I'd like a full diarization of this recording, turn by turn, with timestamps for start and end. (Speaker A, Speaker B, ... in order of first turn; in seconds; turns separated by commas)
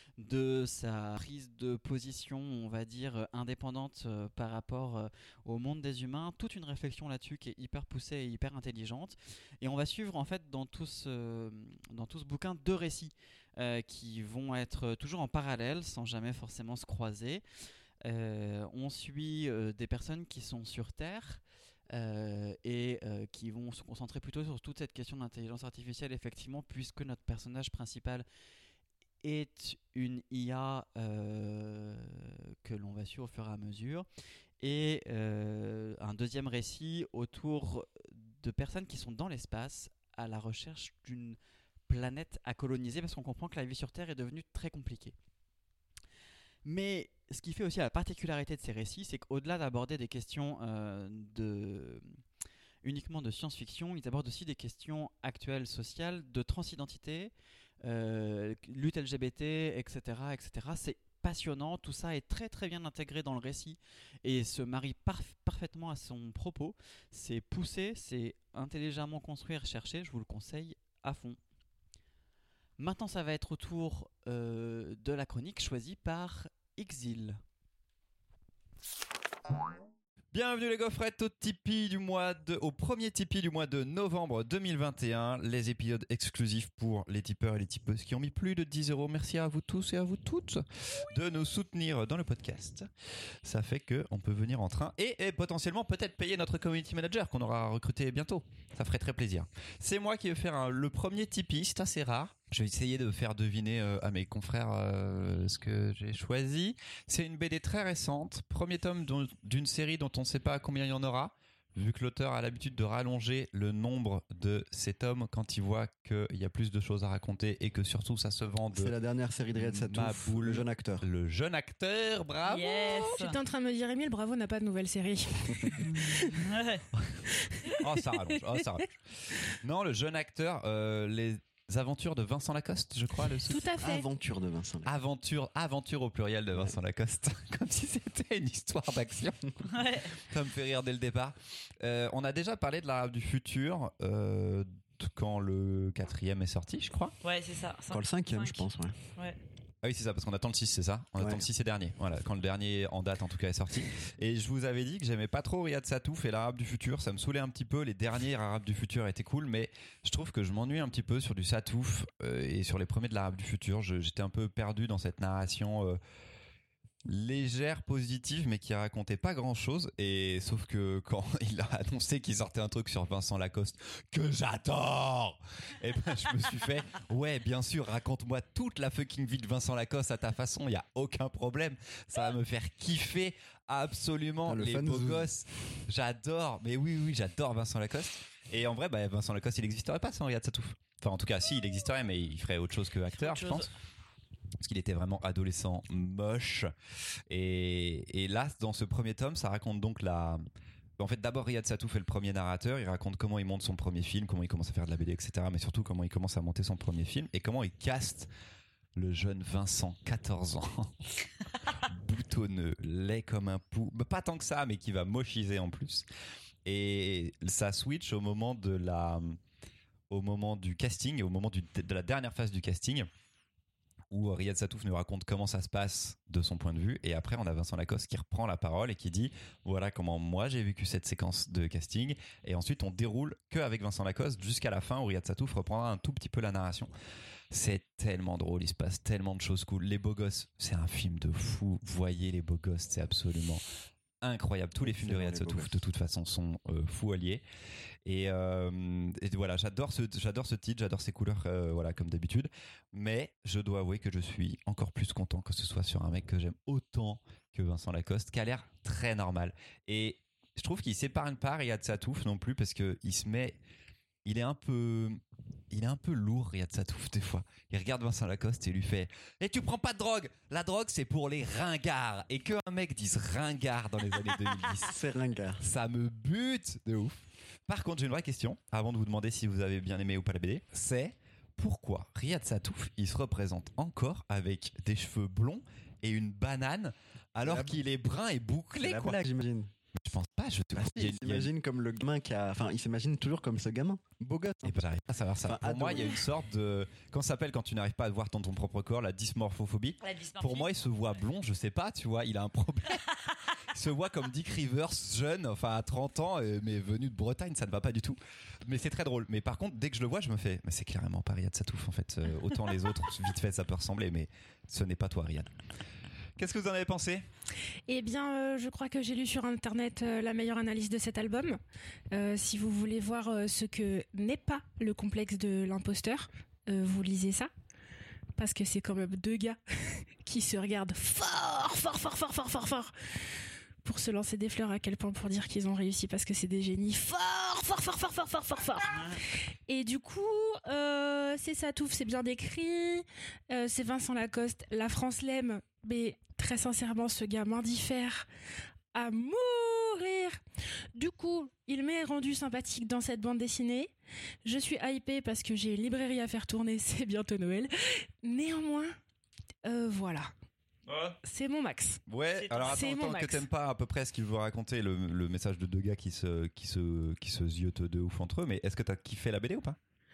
Speaker A: 0.2-17.4, Speaker A: 18.0-28.2, Speaker A: 29.2-34.1, Speaker A: 34.6-45.1, Speaker A: 46.6-52.2, Speaker A: 52.8-71.4, Speaker A: 72.8-77.4, Speaker B: 80.3-92.9, Speaker B: 93.4-118.9, Speaker C: 118.7-121.0, Speaker B: 119.5-123.1, Speaker D: 122.4-123.4, Speaker E: 123.1-126.3, Speaker D: 125.8-126.8, Speaker B: 127.8-133.7, Speaker E: 133.4-134.0, Speaker C: 133.8-134.9, Speaker B: 134.8-139.7, Speaker D: 139.7-140.1, Speaker B: 140.2-147.1, Speaker D: 147.2-149.4, Speaker C: 147.9-148.9, Speaker B: 149.8-166.0, Speaker C: 151.2-151.5, Speaker B: 167.0-193.7, Speaker C: 184.4-185.3, Speaker D: 193.1-193.7, Speaker B: 194.6-196.7, Speaker B: 197.3-200.4, Speaker B: 201.0-208.3, Speaker B: 208.9-210.9, Speaker B: 211.7-216.1, Speaker B: 216.6-219.4, Speaker B: 220.1-223.1, Speaker B: 224.1-236.9, Speaker B: 237.5-243.6, Speaker B: 244.2-247.4, Speaker C: 244.8-245.8, Speaker B: 248.0-263.6, Speaker B: 264.2-275.0, Speaker C: 274.9-275.6, Speaker B: 275.6-289.2, Speaker C: 287.4-287.8, Speaker C: 288.8-289.7, Speaker B: 289.9-291.5, Speaker C: 290.7-294.9, Speaker B: 294.6-303.2, Speaker C: 295.4-296.2, Speaker D: 300.0-301.2, Speaker B: 303.7-315.5, Speaker B: 316.4-317.2, Speaker E: 317.9-321.6, Speaker E: 322.1-327.5, Speaker E: 328.4-332.9, Speaker E: 333.8-348.3, Speaker D: 338.9-339.2, Speaker E: 348.9-350.4, Speaker E: 350.9-353.9, Speaker E: 354.4-358.9, Speaker E: 359.6-360.3, Speaker B: 360.9-361.2, Speaker E: 361.2-362.0, Speaker B: 362.1-369.8, Speaker D: 362.4-362.8, Speaker E: 362.6-363.4